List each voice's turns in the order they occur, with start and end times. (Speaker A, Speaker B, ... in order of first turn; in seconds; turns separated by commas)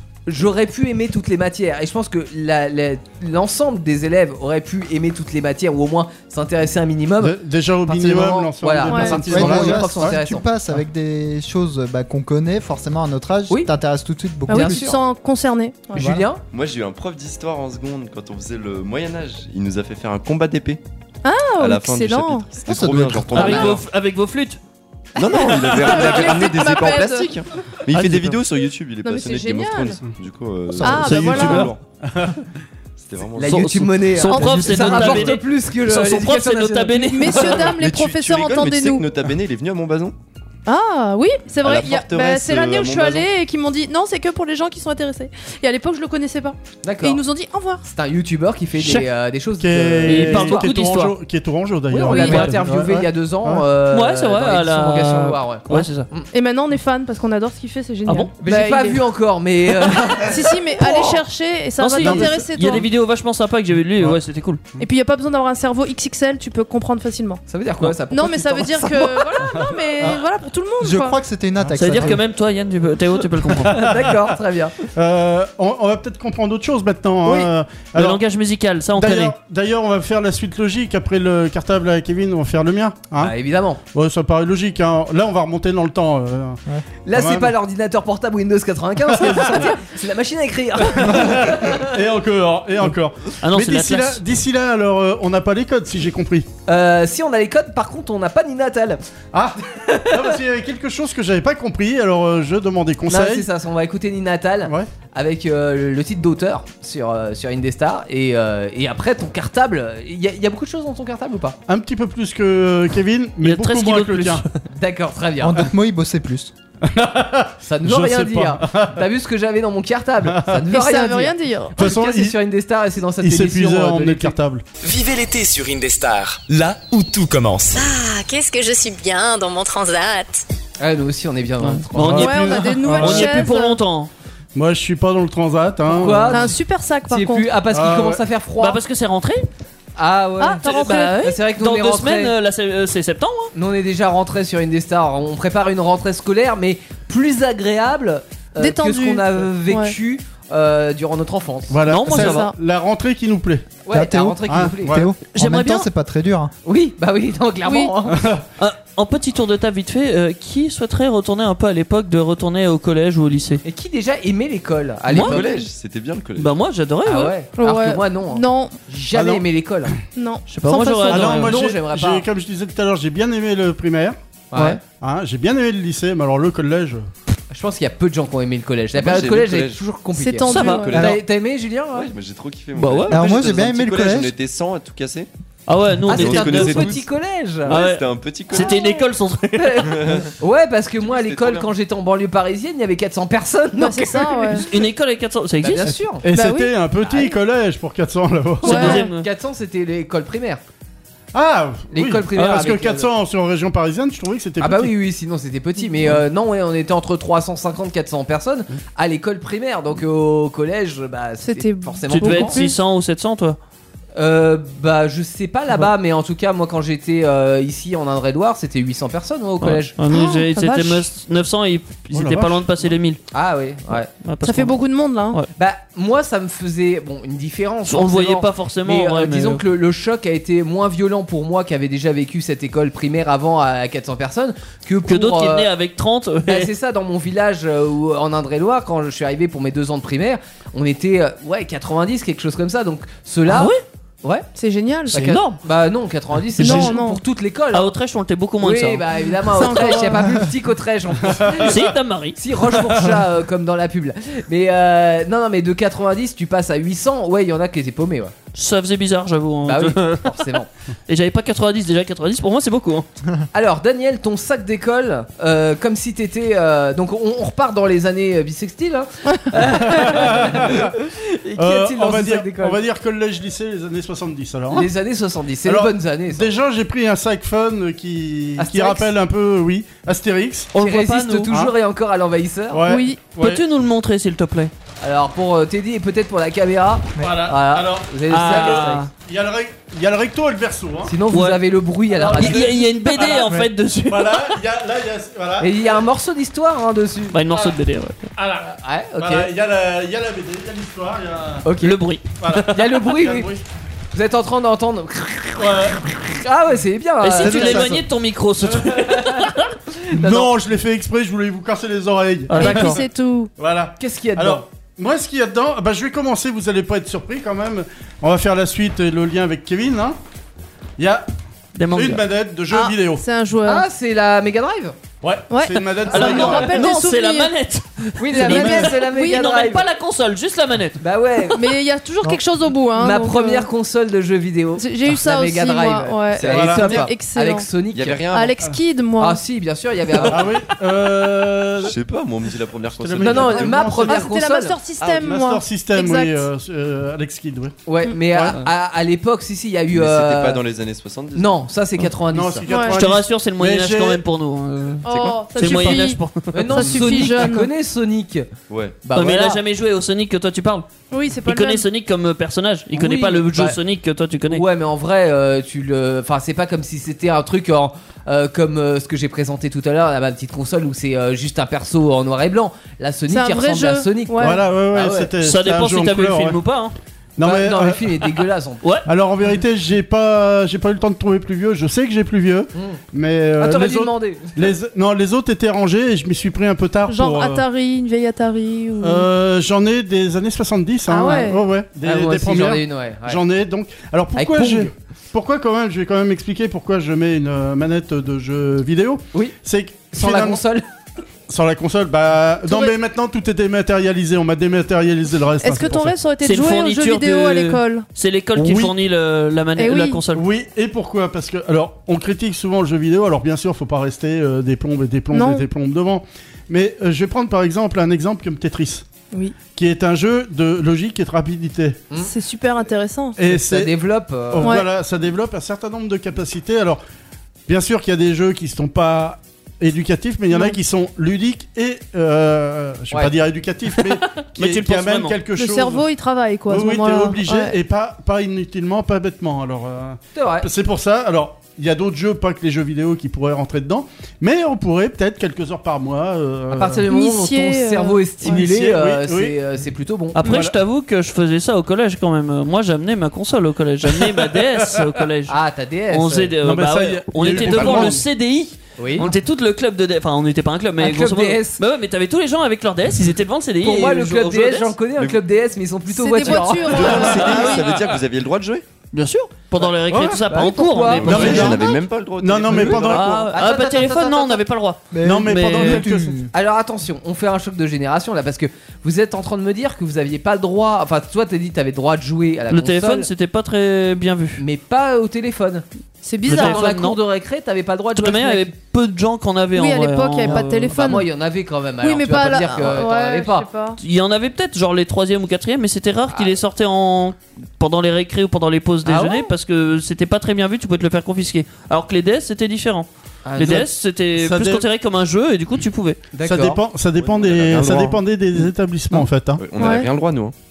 Speaker A: 0.2-10.5, Speaker B: 7.2-10.2, Speaker C: 8.9-9.3, Speaker D: 9.2-15.0, Speaker C: 14.5-16.1, Speaker A: 14.5-15.0, Speaker A: 15.9-16.4, Speaker D: 15.9-16.2, Speaker E: 16.4-20.8, Speaker C: 21.2-22.5, Speaker E: 21.5-23.8, Speaker D: 22.6-23.7, Speaker F: 23.3-24.6, Speaker E: 25.1-31.8, Speaker C: 25.2-27.4, Speaker B: 25.5-25.9, Speaker F: 27.9-28.4, Speaker C: 29.0-30.0, Speaker D: 30.7-31.3, Speaker C: 30.8-31.7, Speaker F: 31.0-31.7, Speaker B: 31.5-32.4, Speaker E: 33.0-33.6, Speaker A: 33.4-37.7, Speaker F: 33.4-37.7, Speaker C: 34.3-35.3, Speaker C: 37.0-39.0, Speaker E: 37.7-40.1, Speaker C: 40.6-47.8, Speaker E: 41.6-43.3, Speaker A: 46.8-47.2, Speaker A: 47.8-50.7, Speaker B: 49.6-53.6, Speaker F: 50.0-51.1, Speaker A: 51.9-56.3, Speaker C: 52.0-52.5, Speaker F: 53.9-56.1, Speaker C: 56.3-59.0, Speaker A: 58.4-61.2, Speaker C: 60.2-62.9, Speaker F: 61.8-64.6, Speaker B: 62.0-62.9, Speaker C: 64.8-67.4, Speaker A: 67.5-69.7, Speaker C: 68.1-71.2, Speaker D: 70.8-72.2, Speaker B: 71.6-72.2, Speaker F: 71.8-73.8, Speaker B: 73.4-78.2, Speaker A: 73.7-74.7, Speaker F: 77.9-79.3, Speaker B: 79.0-83.3, Speaker A: 83.2-83.8, Speaker B: 83.9-86.6, Speaker A: 87.0-91.9, Speaker B: 87.1-87.5, Speaker B: 89.1-89.7, Speaker B: 90.9-96.5, Speaker F: 93.4-94.2, Speaker A: 96.7-99.0, Speaker B: 99.3-103.5, Speaker A: 99.8-100.3, Speaker A: 103.1-111.6, Speaker B: 104.6-104.9, Speaker B: 111.7-114.4, Speaker F: 113.4-114.5, Speaker A: 114.7-115.6, Speaker D: 115.4-116.5, Speaker B: 116.8-119.0, Speaker A: 117.6-124.3, Speaker B: 120.2-120.7, Speaker C: 120.7-121.8, Speaker B: 121.8-122.4, Speaker B: 123.2-124.6, Speaker G: 124.8-127.8, Speaker H: 127.7-130.4, Speaker A: 130.8-132.4, Speaker F: 131.6-134.1, Speaker B: 131.9-133.5, Speaker C: 132.2-133.8, Speaker B: 134.5-136.5, Speaker A: 135.8-136.6, Speaker C: 136.3-137.5, Speaker A: 137.1-138.8, Speaker B: 137.7-138.2, Speaker F: 138.6-139.5, Speaker A: 139.9-142.3, Speaker C: 140.4-141.4, Speaker F: 140.6-143.5, Speaker A: 143.5-151.8, Speaker C: 148.6-149.9, Speaker B: 151.7-153.7, Speaker F: 151.9-152.5, Speaker C: 152.1-152.5, Speaker A: 153.8-155.0, Speaker D: 153.9-156.5, Speaker B: 154.5-155.1, Speaker F: 155.3-155.9, Speaker A: 156.6-158.3, Speaker C: 157.6-157.9, Speaker B: 158.1-158.4, Speaker F: 158.6-163.6, Speaker A: 163.6-165.6, Speaker F: 165.1-165.4, Speaker E: 165.2-166.5, Speaker F: 166.4-167.3, Speaker A: 167.0-169.9, Speaker C: 167.6-168.8, Speaker B: 169.1-170.0, Speaker C: 170.2-171.3, Speaker F: 170.5-171.6, Speaker B: 171.1-174.2, Speaker A: 171.1-172.2, Speaker A: 174.5-174.8, Speaker B: 174.9-177.1, Speaker A: 177.5-182.1, Speaker E: 179.0-179.8, Speaker C: 180.1-180.9, Speaker F: 180.5-180.8, Speaker E: 180.7-181.2, Speaker D: 180.9-181.2, Speaker E: 181.9-185.3, Speaker F: 182.7-183.3, Speaker D: 183.1-184.3, Speaker F: 185.7-187.0, Speaker A: 186.1-187.8, Speaker E: 186.1-187.1, Speaker E: 187.7-188.8, Speaker F: 187.7-190.3, Speaker C: 188.5-189.1, Speaker A: 189.6-194.8, Speaker E: 189.9-190.3, Speaker E: 191.0-191.7, Speaker C: 193.8-194.7, Speaker F: 194.5-195.9, Speaker A: 195.6-196.2, Speaker B: 195.8-199.0, Speaker C: 196.3-196.7, Speaker A: 197.0-197.4, Speaker F: 198.6-199.3, Speaker A: 198.6-200.6, Speaker C: 198.7-199.1, Speaker B: 201.3-204.9, Speaker A: 201.9-203.1, Speaker A: 204.6-212.6, Speaker C: 211.4-212.8, Speaker F: 212.1-213.6, Speaker A: 214.2-219.9, Speaker F: 219.6-223.2, Speaker C: 220.1-221.1, Speaker B: 222.1-222.9, Speaker A: 223.3-224.1, Speaker F: 223.9-224.8, Speaker C: 224.4-225.4, Speaker A: 225.6-235.7, Speaker F: 227.9-229.6, Speaker F: 235.1-236.7, Speaker A: 236.4-243.7, Speaker F: 243.5-243.8, Speaker C: 244.6-245.2, Speaker A: 245.1-247.9, Speaker F: 245.1-245.6, Speaker F: 246.6-246.9, Speaker C: 246.6-247.2, Speaker F: 247.7-249.0, Speaker A: 248.6-251.7, Speaker C: 249.5-250.3, Speaker B: 251.2-251.8, Speaker F: 251.6-252.4, Speaker A: 252.3-258.3, Speaker F: 258.5-260.5, Speaker A: 259.6-260.7, Speaker F: 261.1-263.1, Speaker A: 263.5-272.8, Speaker B: 269.6-270.9, Speaker B: 271.6-274.9, Speaker A: 274.7-276.5, Speaker B: 275.6-280.7, Speaker A: 278.6-279.1, Speaker F: 280.7-281.5, Speaker A: 280.7-282.8, Speaker B: 282.7-283.6, Speaker C: 282.9-283.2, Speaker F: 283.4-284.7, Speaker A: 285.0-289.1, Speaker B: 287.2-291.1, Speaker F: 288.3-289.1, Speaker A: 291.1-293.3, Speaker F: 291.3-291.6, Speaker B: 292.1-295.9, Speaker F: 292.3-294.6, Speaker A: 295.6-297.4, Speaker F: 297.3-298.3, Speaker B: 297.5-297.8, Speaker B: 298.3-301.6, Speaker A: 298.6-299.5, Speaker A: 301.6-302.0, Speaker F: 301.8-302.8, Speaker B: 302.4-303.6, Speaker A: 302.7-303.5, Speaker A: 304.1-308.0, Speaker B: 305.6-306.2, Speaker F: 307.2-309.7, Speaker D: 307.4-307.8, Speaker A: 309.1-309.4, Speaker A: 310.1-310.5, Speaker B: 310.1-313.0, Speaker F: 312.5-313.0, Speaker C: 312.6-313.5, Speaker B: 313.6-320.2, Speaker A: 314.0-314.6, Speaker B: 321.0-321.3, Speaker F: 321.7-322.2, Speaker B: 321.9-323.2, Speaker C: 322.7-323.8, Speaker A: 323.6-324.9, Speaker B: 325.2-326.9, Speaker C: 325.5-327.5, Speaker F: 326.1-331.0, Speaker A: 326.2-326.6, Speaker A: 328.2-329.8, Speaker B: 328.4-328.9, Speaker C: 329.0-329.5, Speaker A: 331.0-331.6, Speaker C: 331.5-333.7, Speaker A: 332.9-338.2, Speaker C: 334.8-337.7, Speaker B: 336.4-337.0, Speaker E: 337.9-338.6, Speaker C: 338.2-339.4, Speaker A: 339.2-340.6, Speaker B: 340.2-341.9, Speaker E: 341.8-343.8, Speaker B: 342.9-344.3, Speaker A: 343.2-344.8, Speaker C: 343.9-346.4, Speaker B: 345.0-348.6, Speaker A: 347.9-350.6, Speaker E: 349.9-351.6, Speaker A: 351.3-352.6, Speaker B: 352.3-354.2, Speaker C: 352.7-353.0, Speaker F: 352.9-357.1, Speaker C: 355.0-357.7, Speaker B: 355.6-356.0, Speaker A: 356.5-358.5, Speaker E: 358.7-359.0, Speaker A: 359.0-359.6, Speaker F: 359.1-360.9, Speaker C: 361.1-361.8, Speaker F: 361.4-364.6, Speaker A: 362.9-363.8, Speaker A: 364.5-375.3, Speaker C: 373.3-374.6, Speaker B: 374.4-376.6, Speaker F: 375.4-376.9, Speaker B: 377.4-378.3, Speaker A: 377.4-378.8, Speaker B: 379.1-387.6, Speaker A: 382.7-383.0, Speaker A: 383.6-384.7, Speaker C: 387.1-389.3, Speaker B: 389.0-400.6, Speaker C: 391.1-391.6, Speaker A: 392.0-393.4, Speaker A: 394.4-394.9, Speaker A: 400.1-400.8, Speaker B: 401.5-406.1, Speaker C: 402.6-402.9, Speaker C: 405.6-408.1, Speaker F: 406.4-410.4, Speaker B: 408.6-408.9, Speaker C: 409.8-410.2, Speaker B: 410.3-419.1, Speaker C: 415.3-415.6, Speaker B: 419.7-422.0, Speaker C: 422.2-423.4, Speaker B: 423.4-427.0, Speaker A: 423.4-424.8, Speaker C: 424.6-424.9, Speaker B: 427.7-436.1, Speaker C: 430.5-430.8, Speaker F: 434.1-435.4, Speaker C: 435.5-437.8, Speaker B: 436.7-447.0, Speaker A: 440.3-440.7, Speaker A: 446.7-450.4, Speaker C: 447.1-448.6, Speaker B: 448.4-449.6, Speaker F: 450.4-455.6, Speaker B: 450.4-450.8, Speaker B: 454.1-455.2, Speaker A: 455.5-456.5, Speaker F: 456.1-464.9, Speaker B: 456.6-458.2, Speaker E: 457.8-458.0, Speaker A: 459.0-459.3, Speaker A: 461.0-461.8, Speaker A: 463.8-467.8, Speaker E: 465.1-465.4, Speaker C: 466.1-467.8, Speaker E: 466.9-468.8, Speaker B: 467.0-468.0, Speaker F: 467.4-467.7, Speaker F: 469.1-471.7, Speaker B: 470.1-470.4, Speaker A: 470.5-471.8, Speaker E: 471.1-473.5, Speaker B: 471.2-473.5, Speaker A: 472.8-474.6, Speaker F: 473.1-476.1, Speaker D: 475.1-476.5, Speaker B: 475.2-476.4, Speaker A: 476.5-483.3, Speaker F: 482.7-484.6, Speaker A: 484.6-485.8, Speaker C: 486.2-486.8, Speaker A: 486.4-488.7, Speaker F: 486.5-487.2, Speaker F: 488.1-491.0, Speaker C: 489.7-491.3, Speaker A: 490.5-493.7, Speaker C: 492.0-494.0, Speaker F: 494.0-506.2, Speaker A: 496.3-496.6, Speaker A: 499.0-499.5, Speaker A: 503.4-503.9, Speaker B: 504.4-504.8, Speaker A: 506.3-506.8, Speaker B: 506.4-509.6, Speaker E: 507.1-508.2, Speaker E: 509.6-510.5, Speaker C: 509.8-510.1